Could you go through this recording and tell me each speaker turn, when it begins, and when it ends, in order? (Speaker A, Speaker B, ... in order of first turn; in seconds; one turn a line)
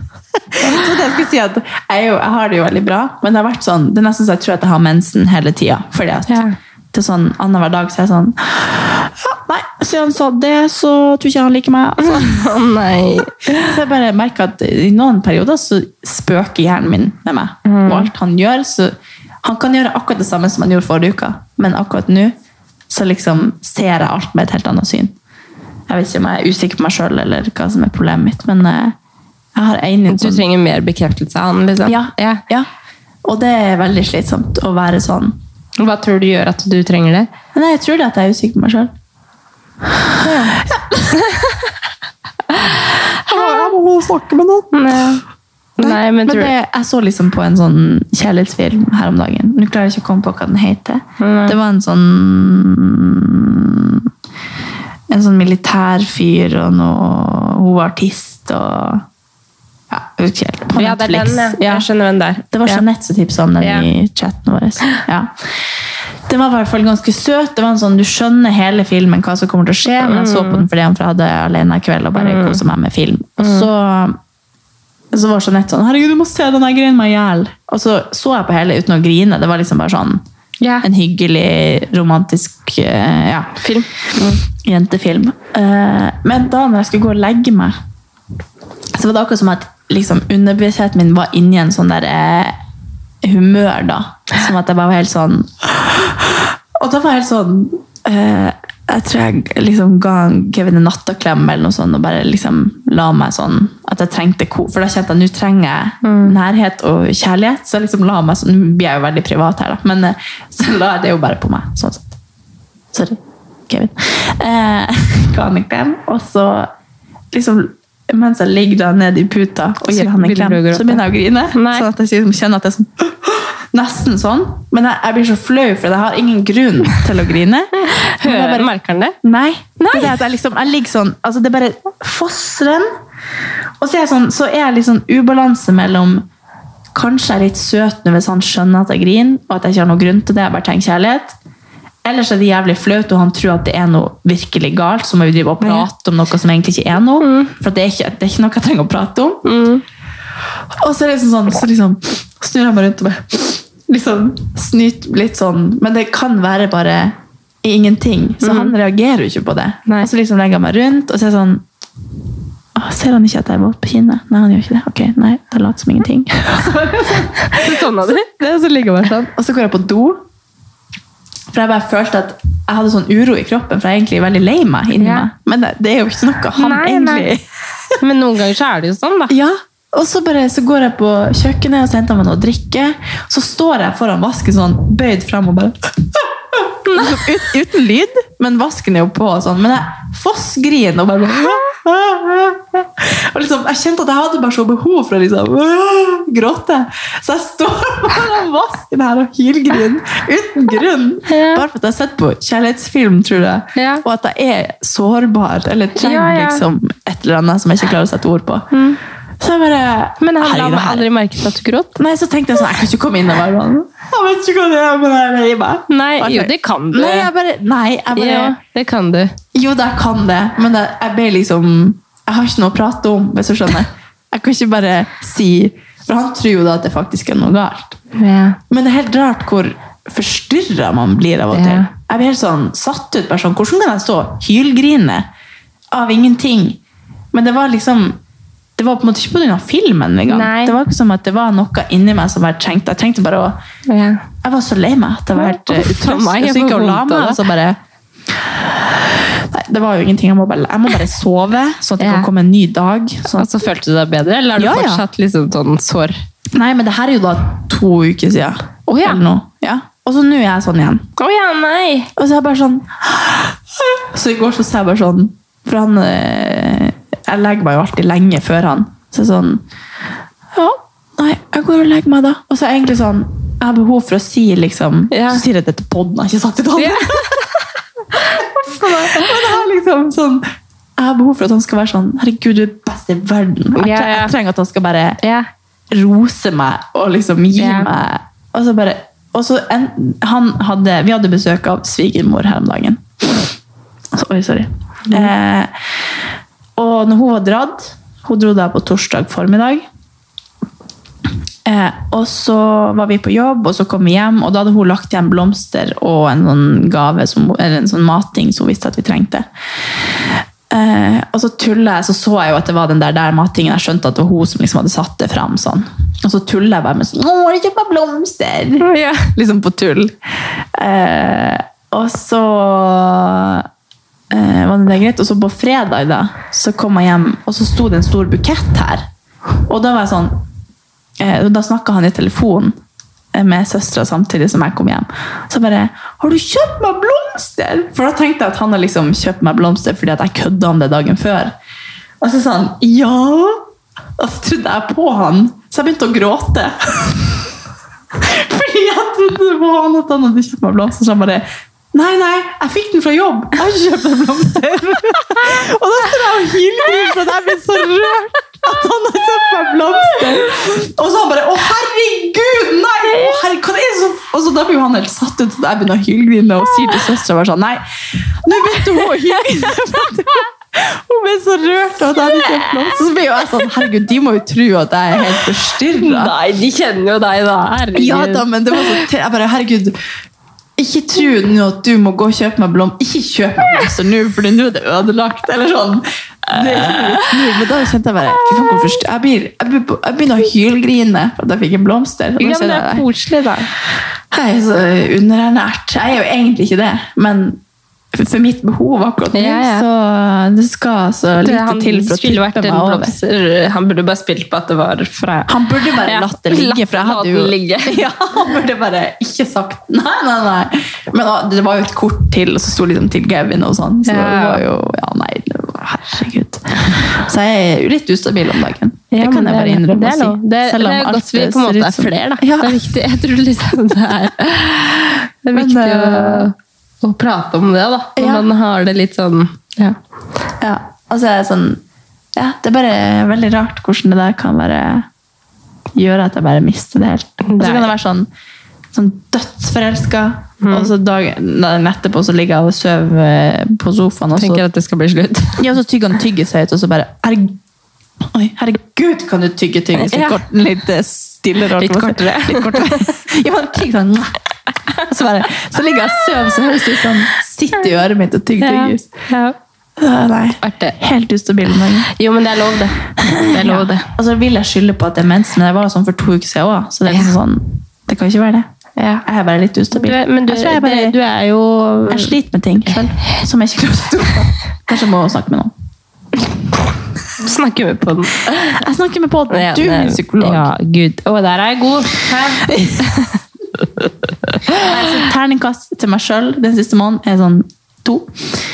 Speaker A: 0.5-12.5
Speaker B: 6.3-6.5
Speaker B: 12.0-13.8
Speaker A: 13.4-22.3
Speaker B: 17.6-18.1
Speaker A: 22.9-25.1
Speaker A: 25.9-28.9
Speaker A: 29.5-30.4
Speaker B: 30.1-32.4
Speaker A: 31.9-32.7
Speaker A: 33.2-35.4
Speaker B: 35.8-37.3
Speaker A: 37.5-38.9
Speaker B: 40.2-40.6
Speaker A: 40.3-41.4
Speaker B: 41.2-41.4
Speaker B: 42.5-43.7
Speaker A: 43.2-45.0
Speaker B: 44.7-45.2
Speaker B: 45.8-46.5
Speaker A: 45.8-54.1
Speaker B: 51.2-51.6
Speaker A: 55.1-59.0
Speaker A: 59.9-61.9
Speaker B: 60.7-62.8
Speaker A: 62.5-65.3
Speaker B: 63.6-63.9
Speaker A: 66.3-74.2
Speaker B: 69.8-70.7
Speaker B: 72.2-72.6
Speaker B: 73.4-73.7
Speaker A: 75.1-80.2
Speaker B: 80.6-80.9
Speaker A: 80.8-83.6
Speaker B: 83.6-84.4
Speaker A: 84.2-87.7
Speaker A: 88.9-92.5
Speaker A: 93.2-112.2
Speaker B: 106.0-106.4
Speaker A: 112.9-116.7
Speaker A: 117.3-128.7
Speaker B: 119.9-121.9
Speaker B: 127.8-129.2
Speaker A: 129.2-132.9
Speaker B: 129.8-130.1
Speaker A: 133.8-136.2
Speaker A: 136.9-141.3
Speaker A: 142.0-149.4
Speaker B: 145.6-145.9
Speaker B: 147.2-147.5
Speaker B: 149.4-149.8
Speaker A: 150.8-161.6
Speaker B: 158.4-158.7
Speaker A: 162.7-170.2
Speaker B: 167.3-168.3
Speaker A: 171.5-177.4
Speaker B: 175.0-175.3
Speaker B: 176.6-177.3
Speaker B: 178.0-179.3
Speaker A: 179.3-208.7
Speaker B: 186.8-187.3
Speaker B: 201.3-201.6
Speaker B: 203.8-204.0
Speaker B: 206.0-206.6
Speaker B: 208.7-209.0
Speaker A: 209.4-211.1
Speaker B: 210.2-212.0
Speaker A: 212.0-218.6
Speaker B: 215.9-217.3
Speaker B: 218.1-219.3
Speaker A: 219.5-228.0
Speaker B: 228.1-228.6
Speaker A: 228.7-235.3
Speaker B: 231.5-231.9
Speaker A: 235.9-236.8
Speaker A: 237.3-238.2
Speaker A: 238.8-243.6
Speaker B: 240.3-240.8
Speaker B: 243.9-244.2
Speaker A: 244.4-247.8
Speaker B: 245.3-247.4
Speaker A: 248.4-253.5
Speaker B: 252.0-252.3
Speaker B: 253.3-256.1
Speaker A: 254.6-255.0
Speaker A: 256.5-261.1
Speaker B: 258.9-259.2
Speaker B: 261.2-262.1
Speaker A: 262.1-269.6
Speaker A: 270.5-280.4
Speaker B: 275.1-275.4
Speaker B: 276.8-277.5
Speaker B: 278.1-279.4
Speaker A: 281.0-285.2
Speaker B: 283.8-284.3
Speaker B: 285.2-285.5
Speaker A: 285.9-293.5
Speaker B: 287.6-287.9
Speaker A: 294.1-295.7
Speaker A: 296.8-299.8
Speaker A: 301.6-309.5
Speaker A: 310.2-320.2
Speaker B: 318.8-319.3
Speaker A: 320.7-323.7
Speaker A: 324.3-329.1
Speaker A: 329.7-330.4
Speaker A: 331.2-332.8
Speaker A: 333.3-341.5
Speaker A: 342.2-343.6
Speaker A: 344.2-347.5
Speaker A: 348.1-367.8
Speaker A: 368.4-376.3
Speaker B: 372.3-372.9
Speaker B: 376.0-379.0
Speaker A: 377.9-379.9
Speaker A: 380.8-393.0
Speaker B: 386.5-387.6
Speaker B: 388.4-388.9
Speaker B: 392.4-393.7
Speaker A: 394.3-397.6
Speaker A: 398.1-403.1
Speaker B: 399.3-399.9
Speaker B: 401.4-408.0
Speaker A: 405.5-422.9
Speaker B: 414.0-414.6
Speaker B: 419.1-430.0
Speaker A: 425.5-426.5
Speaker A: 428.2-428.5
Speaker A: 430.6-431.8
Speaker A: 432.4-435.1
Speaker A: 435.9-438.3
Speaker B: 437.4-437.9
Speaker A: 438.9-444.6
Speaker B: 440.6-440.9
Speaker B: 444.4-445.6
Speaker A: 445.6-447.6
Speaker A: 448.3-454.4
Speaker B: 449.9-450.4
Speaker B: 451.8-453.2
Speaker A: 454.9-459.1
Speaker B: 458.6-459.6
Speaker A: 460.0-462.1
Speaker B: 460.6-461.0
Speaker B: 462.1-464.1
Speaker A: 463.2-468.7
Speaker B: 467.1-467.3
Speaker B: 469.0-469.2
Speaker A: 469.2-471.1
Speaker B: 469.9-472.3
Speaker A: 472.1-475.7
Speaker B: 477.4-478.9
Speaker A: 478.7-480.7
Speaker B: 479.5-483.4
Speaker A: 482.7-483.0
Speaker A: 484.7-488.6